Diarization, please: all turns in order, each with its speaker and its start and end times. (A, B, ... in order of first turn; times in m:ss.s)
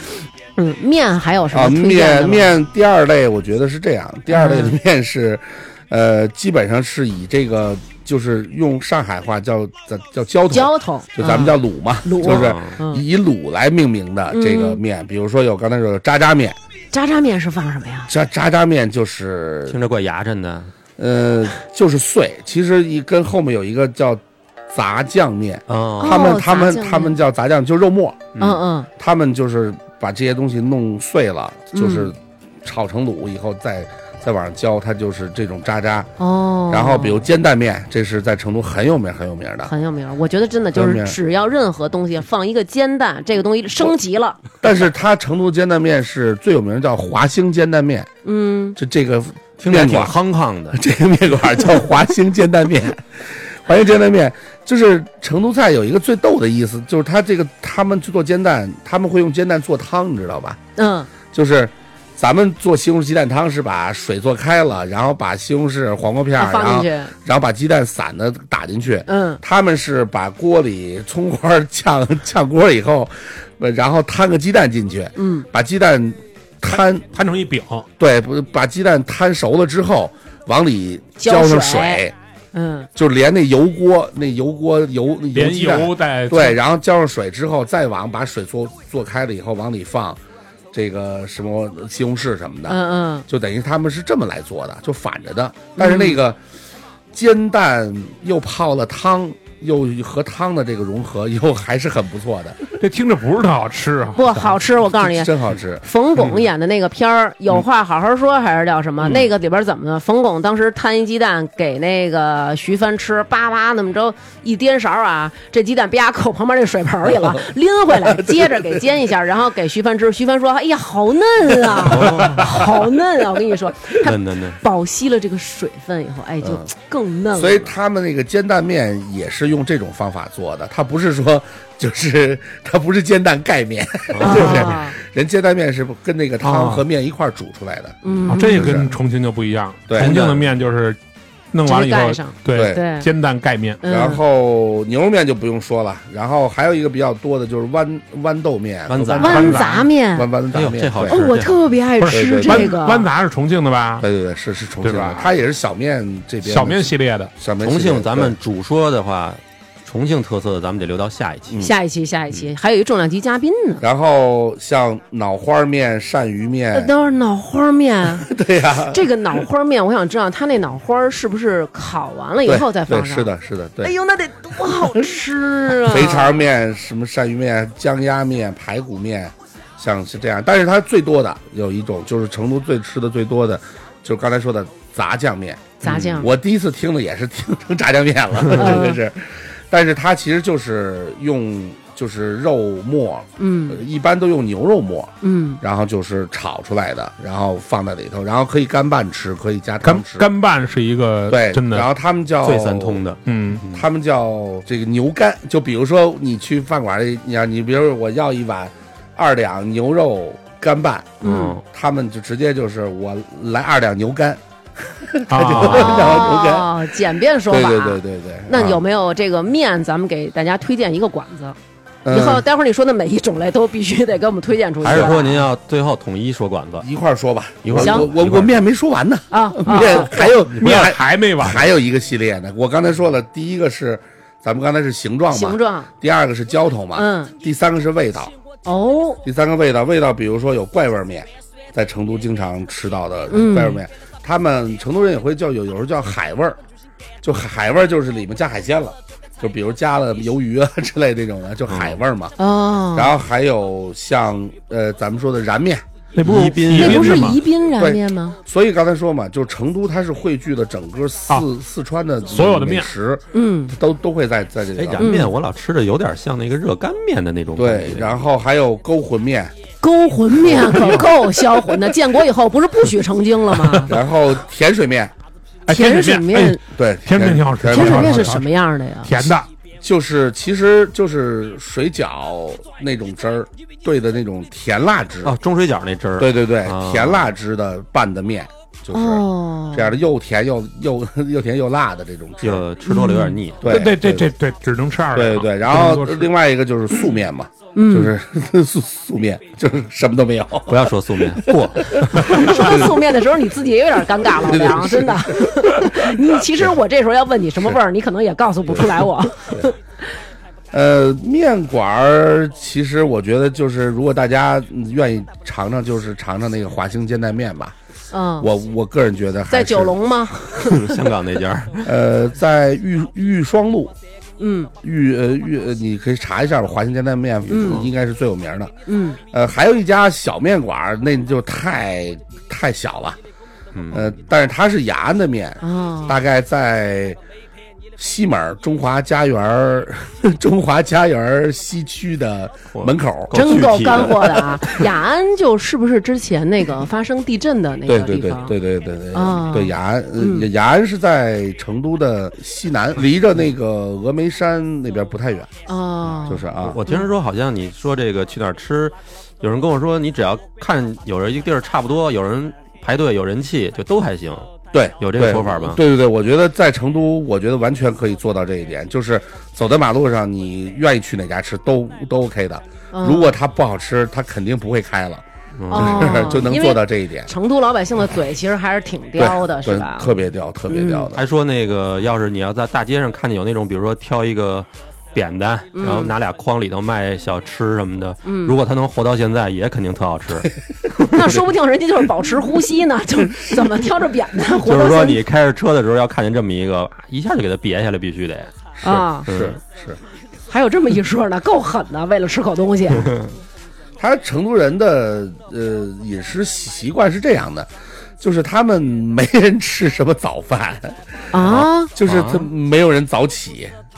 0:00.6-0:02.6 A
0:01.5-0:16.6 B
0:04.3-0:04.8 A
0:10.5-0:13.0 A
0:12.2-0:12.7 C
0:14.3-0:14.8 A
0:16.9-0:18.1 A
0:18.1-0:19.8 B
0:19.7-0:20.7 C
0:21.0-0:28.3 B
0:25.7-0:26.3 C
0:26.0-0:27.2 A
0:28.4-0:28.6 C
0:28.4-0:28.9 A
0:29.0-0:36.1 B
0:31.7-0:32.1 A
0:36.2-0:37.3 A
0:36.7-0:39.7 B
0:39.6-0:44.4 A
0:40.7-0:41.2 B
0:44.6-0:48.1 B
0:48.2-0:48.8 A
0:48.8-0:50.1 B
0:49.6-0:50.8 C
0:50.7-1:00.6 B
1:00.8-1:01.1 A
1:01.3-1:17.0 B
1:06.4-1:07.1 A
1:09.1-1:09.4 A
1:15.2-1:15.4 A
1:17.1-1:17.8 D
1:18.0-1:22.1 B
1:21.2-1:22.9 A
1:23.0-1:30.2 B
1:25.3-1:26.6 D
1:30.7-1:36.4 B
1:32.7-1:33.3 A
1:35.8-1:36.2 A
1:37.1-1:42.6 B
1:42.8-1:44.6 D
1:44.2-1:45.3 A
1:44.9-1:45.8 B
1:45.8-2:07.7 A
1:57.9-1:58.8 B
2:01.8-2:02.6 C
2:04.0-2:04.6 C
2:07.3-2:18.9 B
2:14.1-2:14.7 C
2:14.2-2:14.9 A
2:16.4-2:16.8 D
2:18.0-2:18.8 A
2:18.3-2:21.0 D
2:19.9-2:20.2 B
2:20.0-2:20.4 C
2:21.5-2:23.8 D
2:21.6-2:23.1 A
2:22.5-2:22.8 B
2:23.8-2:24.2 A
2:23.8-2:31.2 B
2:28.9-2:29.7 C
2:29.2-2:29.8 D
2:29.2-2:30.3 A
2:30.5-2:31.6 C
2:31.1-2:33.1 A
2:32.0-2:34.0 D
2:32.1-2:32.7 B
2:34.0-2:38.3 B
2:34.8-2:35.3 D
2:36.4-2:37.3 D
2:37.6-2:41.6 C
2:41.6-2:43.8 A
2:43.8-2:46.9 B
2:46.7-2:48.3 A
2:48.2-2:49.0 B
2:48.9-2:56.3 A
2:52.4-2:53.9 B
2:55.7-3:20.3 B
3:05.8-3:06.3 A
3:05.8-3:06.2 C
3:08.6-3:09.0 A
3:13.4-3:13.8 A
3:15.2-3:15.6 A
3:19.8-3:21.9 D
3:21.3-3:23.0 B
3:22.4-3:23.8 C
3:23.2-3:23.6 D
3:23.7-3:36.8 B
3:31.2-3:31.6 A
3:31.2-3:31.6 C
3:35.3-3:36.1 D
3:35.6-3:41.6 A
3:37.5-3:38.8 B
3:42.0-3:42.4 B
3:42.1-3:45.4 A
3:44.8-3:46.9 C
3:46.8-3:58.3 B
3:47.6-3:48.6 C
3:47.8-3:48.1 A
3:49.3-3:50.2 A
3:50.1-3:51.7 D
3:55.3-3:55.9 A
3:56.9-3:57.3 A
3:58.6-3:59.2 A
3:59.2-4:06.6 B
4:03.3-4:03.8 A
4:07.2-4:12.4 B
4:11.7-4:12.0 C
4:12.4-4:13.1 A
4:12.9-4:15.8 B
4:16.1-4:17.4 D
4:16.2-4:17.4 C
4:16.7-4:18.4 A
4:17.8-4:25.2 B
4:22.3-4:22.9 D
4:23.3-4:23.7 A
4:24.8-4:28.2 C
4:25.0-4:25.3 A
4:27.6-4:29.5 B
4:29.8-4:33.9 A
4:30.4-4:31.1 B
4:33.9-4:35.1 B
4:35.7-4:38.5 D
4:35.7-4:36.6 A
4:36.7-4:38.3 B
4:37.7-4:39.1 A
4:39.0-4:39.5 D
4:39.2-4:45.4 B
4:45.2-4:47.3 C
4:46.2-4:52.6 B
4:48.9-4:50.0 A
4:52.4-4:53.7 C
4:52.8-4:53.4 A
4:53.6-4:54.3 B
4:53.6-4:56.3 D
4:55.1-5:02.9 B
4:57.7-4:58.1 A
5:00.7-5:02.6 C
5:02.1-5:09.8 A
5:04.2-5:06.7 B
5:08.7-5:09.7 B
5:10.7-5:17.7 B
5:18.1-5:18.5 A
5:18.4-5:20.0 B
5:19.5-5:21.0 A
5:20.7-5:21.9 C
5:21.8-5:23.9 B
5:24.4-5:24.7 A
5:24.8-5:28.7 B
5:27.5-5:27.8 A
5:27.6-5:27.9 C
5:28.8-5:29.2 A
5:29.3-5:33.2 B
5:33.7-5:34.1 C
5:33.9-5:37.2 B
5:35.6-5:36.2 A
5:38.0-5:44.3 B
5:42.7-5:44.8 C
5:43.3-5:48.5 A
5:47.9-5:55.5 B
5:49.1-5:50.5 A
5:55.7-5:57.0 A
5:56.2-5:56.8 B
5:56.6-6:04.5 C
6:04.7-6:17.3 B
6:05.0-6:05.8 C
6:12.9-6:13.4 A
6:15.6-6:16.3 C
6:15.7-6:20.1 A
6:19.2-6:21.2 B
6:20.7-6:21.0 A
6:21.1-6:31.4 C
6:25.7-6:26.1 A
6:28.2-6:28.5 A
6:31.1-6:35.2 A
6:34.6-6:39.6 C
6:38.8-6:39.3 A
6:39.3-6:40.0 B
6:40.5-6:43.1 A
6:43.0-6:43.3 C
6:44.0-6:51.2 B
6:51.3-6:51.9 A
6:51.4-6:52.5 C
6:51.9-6:53.7 B